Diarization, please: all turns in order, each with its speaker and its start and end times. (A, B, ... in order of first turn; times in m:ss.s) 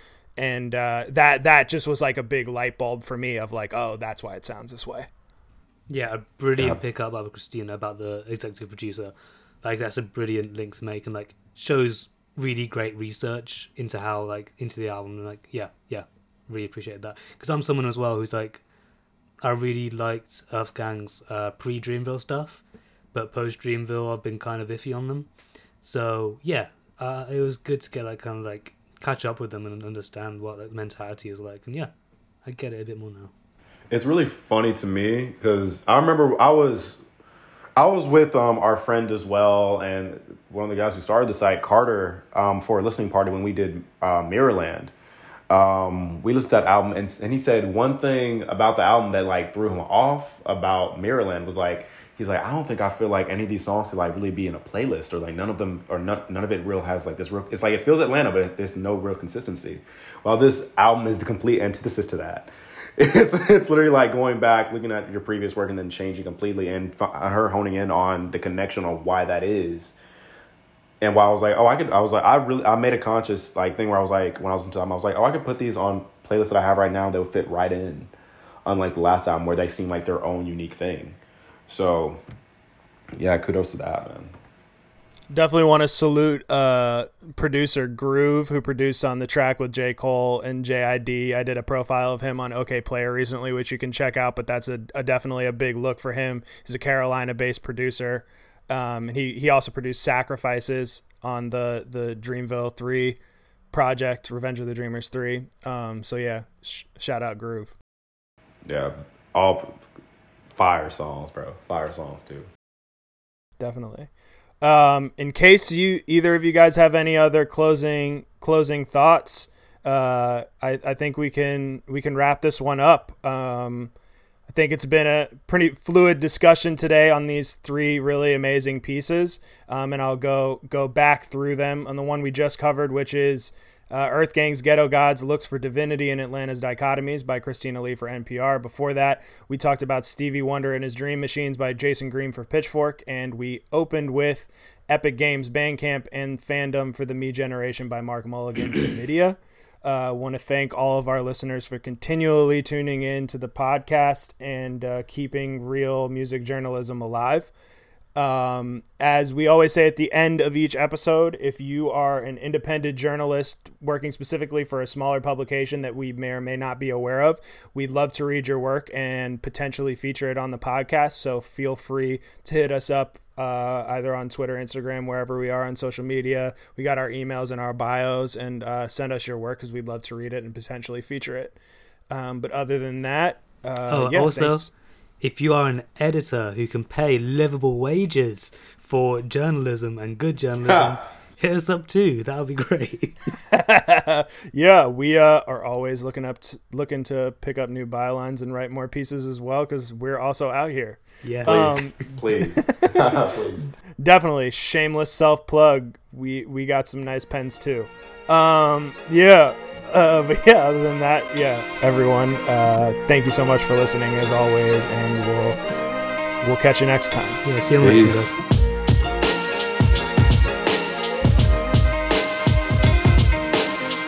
0:00.4-0:05.1 A
0:05.9-0:18.6 B
0:19.4-0:22.6 B
0:23.1-0:25.3 B
0:25.8-0:31.9 B
0:32.4-0:33.3 B
0:33.9-0:37.0 C
0:37.8-0:44.9 C
0:45.5-1:10.0 C
1:11.0-1:18.1 C
1:18.7-1:22.2 C
1:23.1-1:24.3 C
1:25.3-1:43.2 A
1:43.7-1:47.8 A
1:48.6-1:49.8 C
1:50.6-1:52.5 C
1:53.6-1:54.1 A
1:54.6-2:03.9 A
2:04.5-2:37.5 A
2:38.2-3:01.6 A
3:02.1-3:04.7 A
3:03.9-3:04.7 B
3:05.2-3:13.4 B
3:13.5-3:22.0 A
3:21.2-3:21.9 B
3:21.5-3:23.7 C
3:22.6-3:23.1 A
3:24.0-3:35.6 A
3:36.4-3:37.4 A
3:37.4-3:38.4 B
3:37.8-3:38.4 C